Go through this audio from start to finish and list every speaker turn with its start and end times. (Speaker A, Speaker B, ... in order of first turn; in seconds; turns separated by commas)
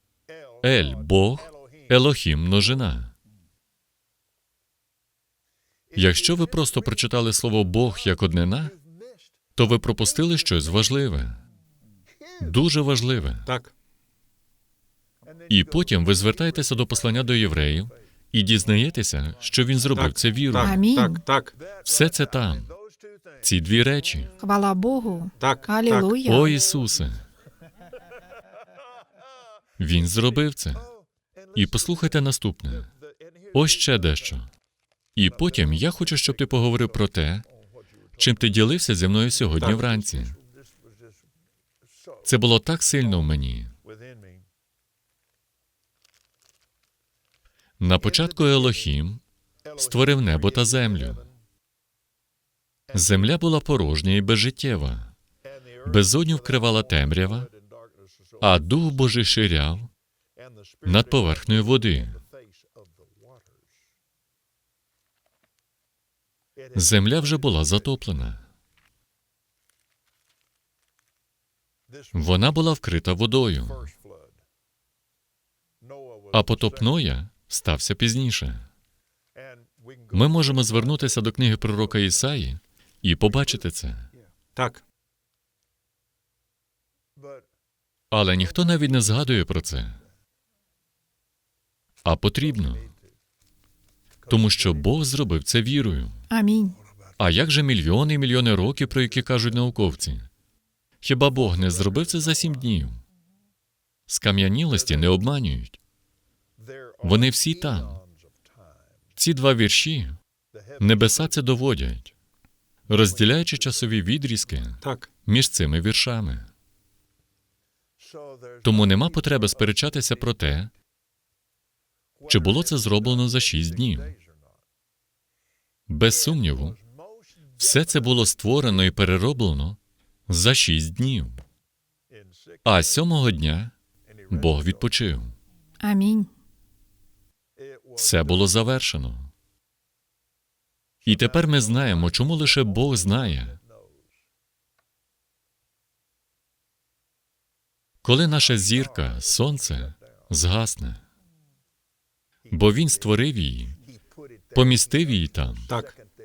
Speaker A: 0.6-3.1, Speaker A: 5.9-8.8, Speaker A: 9.6-11.4, Speaker A: 12.4-13.5, Speaker B: 13.4-13.7, Speaker A: 15.5-20.8, Speaker B: 19.9-21.6, Speaker C: 20.6-21.2, Speaker A: 21.8-22.7, Speaker A: 23.4-24.3, Speaker C: 24.4-26.6, Speaker B: 25.4-26.2, Speaker A: 26.2-27.2, Speaker A: 29.8-30.9, Speaker A: 31.6-32.9, Speaker A: 33.5-34.5, Speaker A: 35.2-37.5, Speaker A: 38.2-40.4, Speaker A: 42.2-43.8, Speaker A: 47.8-49.2, Speaker A: 49.7-51.3, Speaker A: 52.9-55.1, Speaker A: 55.8-57.5, Speaker A: 58.4-59.9, Speaker A: 60.8-62.2, Speaker A: 66.7-68.5, Speaker A: 72.1-73.9, Speaker A: 76.3-78.7, Speaker A: 80.1-84.1, Speaker B: 84.6-84.8, Speaker A: 88.1-90.0, Speaker A: 92.0-92.9, Speaker A: 94.3-96.2, Speaker C: 96.3-96.8, Speaker A: 97.2-100.3, Speaker A: 101.0-103.0, Speaker A: 104.1-105.8, Speaker A: 107.0-108.0, Speaker A: 109.2-110.2, Speaker A: 110.8-112.1, Speaker A: 112.9-116.5, Speaker B: 114.8-115.1, Speaker A: 118.6-120.7, Speaker A: 122.3-124.2, Speaker A: 125.9-126.8, Speaker A: 127.6-131.4, Speaker A: 132.7-133.7, Speaker A: 134.3-135.3, Speaker C: 135.8-136.3, Speaker A: 137.9-139.3, Speaker A: 141.1-143.6, Speaker A: 148.0-151.0, Speaker A: 152.5-153.8, Speaker A: 154.5-155.7, Speaker B: 155.7-155.9